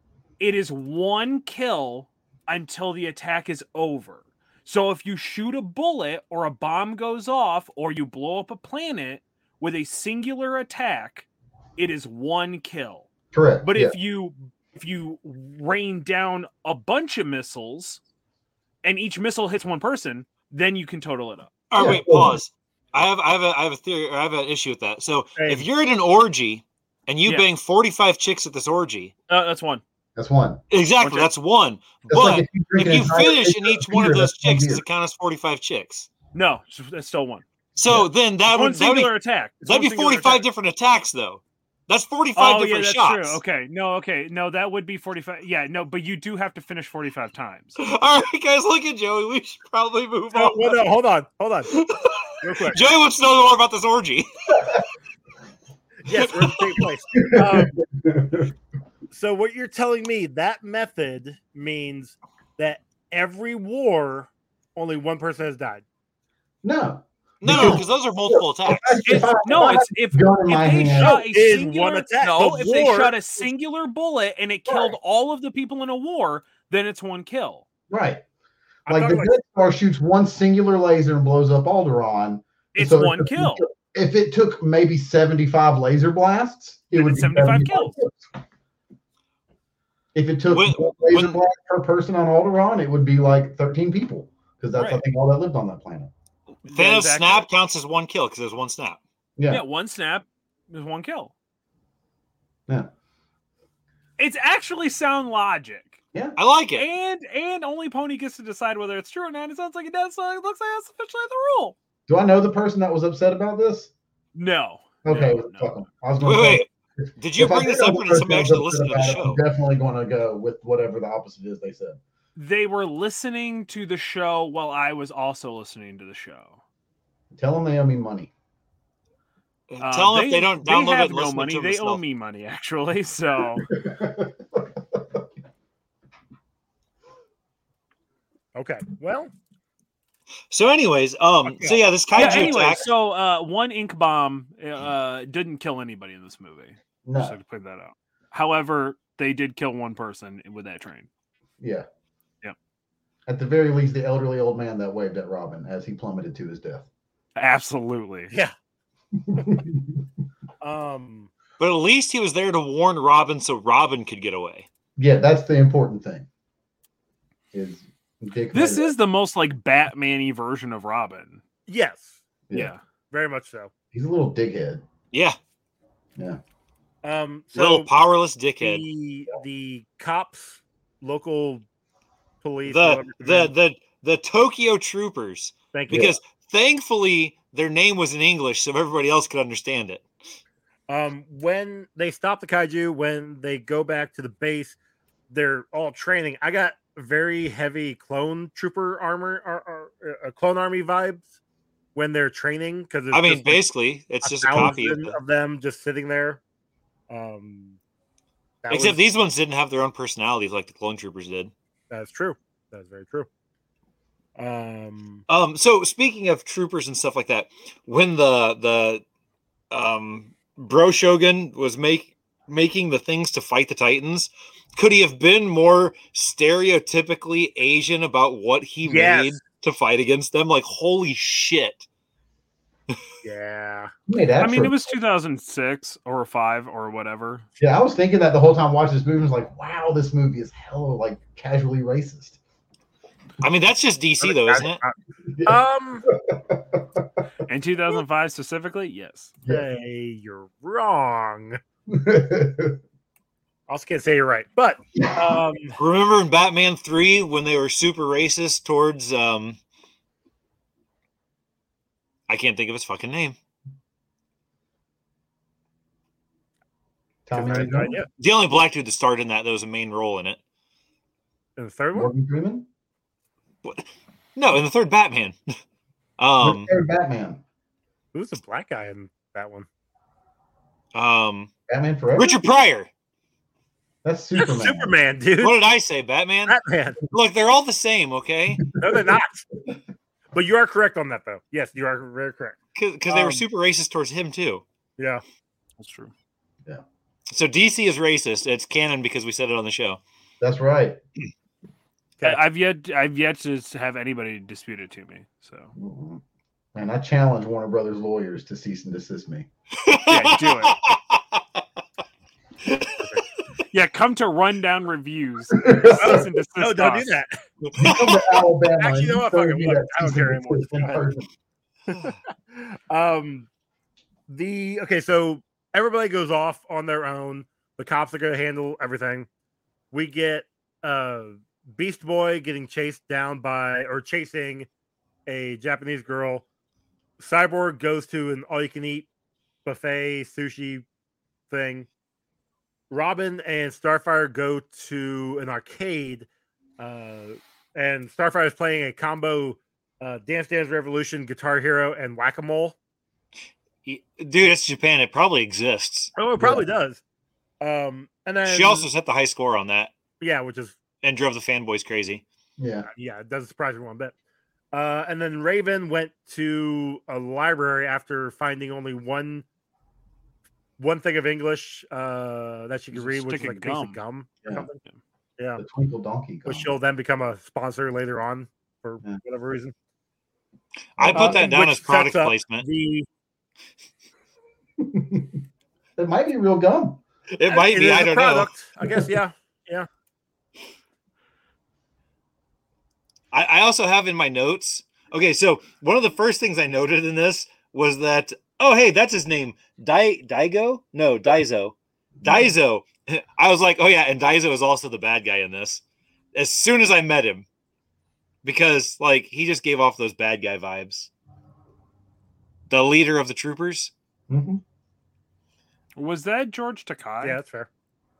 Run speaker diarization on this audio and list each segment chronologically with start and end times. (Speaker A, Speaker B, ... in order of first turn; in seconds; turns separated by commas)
Speaker A: 0.4-13.1, Speaker B: 13.3-13.9, Speaker A: 13.6-18.0, Speaker A: 18.8-21.5, Speaker C: 21.7-29.1, Speaker B: 21.8-22.4, Speaker D: 25.4-25.6, Speaker A: 29.3-29.8, Speaker B: 30.1-30.6, Speaker C: 30.7-36.1, Speaker A: 31.0-31.3, Speaker B: 32.1-34.8, Speaker A: 36.3-37.4, Speaker C: 37.8-43.4, Speaker A: 38.5-40.4, Speaker A: 42.4-47.8, Speaker C: 47.8-50.8, Speaker D: 50.3-51.8, Speaker C: 51.7-54.7, Speaker D: 52.4-52.8, Speaker D: 56.0-57.8, Speaker C: 56.1-56.8, Speaker B: 57.2-58.5, Speaker D: 59.1-65.8, Speaker B: 66.6-71.2, Speaker C: 67.4-69.0, Speaker A: 69.0-77.6, Speaker D: 71.0-73.5, Speaker B: 74.7-74.9, Speaker B: 77.9-78.2, Speaker D: 78.9-79.3, Speaker B: 78.9-88.2, Speaker A: 82.7-83.6, Speaker A: 86.9-88.0, Speaker B: 90.1-96.1, Speaker C: 90.5-91.4, Speaker A: 94.7-95.0, Speaker A: 96.7-97.5, Speaker C: 96.7-99.0, Speaker B: 99.4-99.6, Speaker A: 99.5-101.3, Speaker A: 104.2-106.0, Speaker C: 106.4-106.8, Speaker A: 106.8-111.8, Speaker B: 112.1-113.9, Speaker A: 114.3-115.8, Speaker B: 115.0-122.0, Speaker C: 116.2-119.4, Speaker A: 122.3-126.6, Speaker B: 127.3-128.3, Speaker C: 129.7-132.0, Speaker A: 129.8-133.7, Speaker B: 133.7-135.2, Speaker D: 138.5-139.3, Speaker C: 140.5-142.8, Speaker D: 141.5-141.8, Speaker A: 142.2-151.1, Speaker B: 142.2-142.7, Speaker B: 147.0-147.4, Speaker B: 151.6-151.8, Speaker B: 153.3-156.8, Speaker A: 157.3-158.3, Speaker B: 159.2-160.0, Speaker D: 160.6-161.3, Speaker C: 161.6-164.7, Speaker B: 165.0-166.3, Speaker B: 167.5-168.9, Speaker A: 168.5-171.4, Speaker D: 171.7-172.2, Speaker A: 172.5-172.8, Speaker D: 173.1-173.7, Speaker B: 173.9-174.8, Speaker C: 175.1-175.4, Speaker D: 177.0-177.9, Speaker C: 177.5-178.8, Speaker D: 178.6-181.6, Speaker D: 182.4-183.5, Speaker C: 182.6-190.0, Speaker D: 185.7-186.1, Speaker B: 185.9-186.2, Speaker D: 190.9-194.8, Speaker D: 195.3-201.3, Speaker D: 201.9-203.6, Speaker C: 203.1-205.2, Speaker D: 204.2-206.4, Speaker D: 207.1-207.8, Speaker D: 208.6-209.0, Speaker C: 208.7-211.5, Speaker D: 211.9-213.3, Speaker D: 214.3-215.2, Speaker C: 215.3-219.0, Speaker C: 219.7-231.8, Speaker D: 228.8-229.3, Speaker D: 233.2-233.9, Speaker B: 234.1-234.9, Speaker A: 234.4-237.4, Speaker B: 237.6-242.4, Speaker C: 243.4-244.8, Speaker D: 244.2-244.9, Speaker B: 245.3-245.6, Speaker D: 245.4-246.1, Speaker B: 246.2-247.0, Speaker A: 247.4-249.3, Speaker D: 249.5-251.6, Speaker B: 251.9-252.8, Speaker D: 253.7-255.8, Speaker B: 255.0-255.4, Speaker C: 255.8-259.6, Speaker C: 262.3-263.3, Speaker B: 267.2-268.0, Speaker D: 267.3-268.1, Speaker C: 267.5-270.4, Speaker D: 271.6-272.1, Speaker B: 271.9-272.7, Speaker C: 273.6-275.4, Speaker C: 276.2-276.7, Speaker B: 276.4-277.4, Speaker D: 278.1-279.7, Speaker C: 280.9-281.5, Speaker B: 281.7-282.4, Speaker C: 282.1-282.9, Speaker B: 284.0-284.9, Speaker D: 284.4-285.6, Speaker C: 285.4-286.6, Speaker D: 286.5-287.0, Speaker C: 287.1-288.6, Speaker D: 288.8-289.5, Speaker B: 288.9-289.1, Speaker D: 290.3-292.6, Speaker C: 292.7-294.6, Speaker D: 293.1-293.4, Speaker D: 295.0-295.2, Speaker A: 295.8-296.1, Speaker C: 297.3-300.0, Speaker B: 300.4-301.0, Speaker A: 302.2-305.7, Speaker B: 305.8-306.2, Speaker B: 306.7-309.5, Speaker C: 309.8-311.4, Speaker A: 310.1-310.8, Speaker C: 312.7-313.0, Speaker A: 313.7-317.1, Speaker B: 315.5-316.2, Speaker D: 315.9-317.3, Speaker C: 317.6-318.2, Speaker B: 317.8-321.3, Speaker D: 318.8-321.1, Speaker D: 321.9-323.5, Speaker D: 324.3-329.3, Speaker D: 329.9-334.7, Speaker D: 335.2-336.4, Speaker D: 337.2-339.1, Speaker D: 339.6-340.8, Speaker D: 341.5-341.9, Speaker D: 342.9-346.3, Speaker D: 346.8-352.7, Speaker C: 353.9-356.1, Speaker D: 356.1-357.0, Speaker B: 356.4-356.7, Speaker D: 357.6-358.9, Speaker C: 358.4-359.9, Speaker D: 360.2-360.8, Speaker C: 361.0-362.2, Speaker B: 362.6-362.9, Speaker D: 362.9-364.1, Speaker D: 364.7-369.4, Speaker D: 370.8-374.8, Speaker A: 372.9-374.0, Speaker B: 375.6-376.7, Speaker D: 376.4-379.7, Speaker C: 381.0-382.6, Speaker B: 381.0-381.4, Speaker D: 381.1-383.1, Speaker B: 384.8-385.4, Speaker B: 386.0-387.0, Speaker C: 387.3-388.5, Speaker D: 387.5-389.9, Speaker B: 388.8-389.1, Speaker C: 393.3-405.8, Speaker B: 402.2-402.5, Speaker C: 406.3-407.4, Speaker C: 408.4-411.1, Speaker C: 412.7-413.9, Speaker B: 414.3-414.6, Speaker A: 415.9-417.4, Speaker D: 417.2-417.7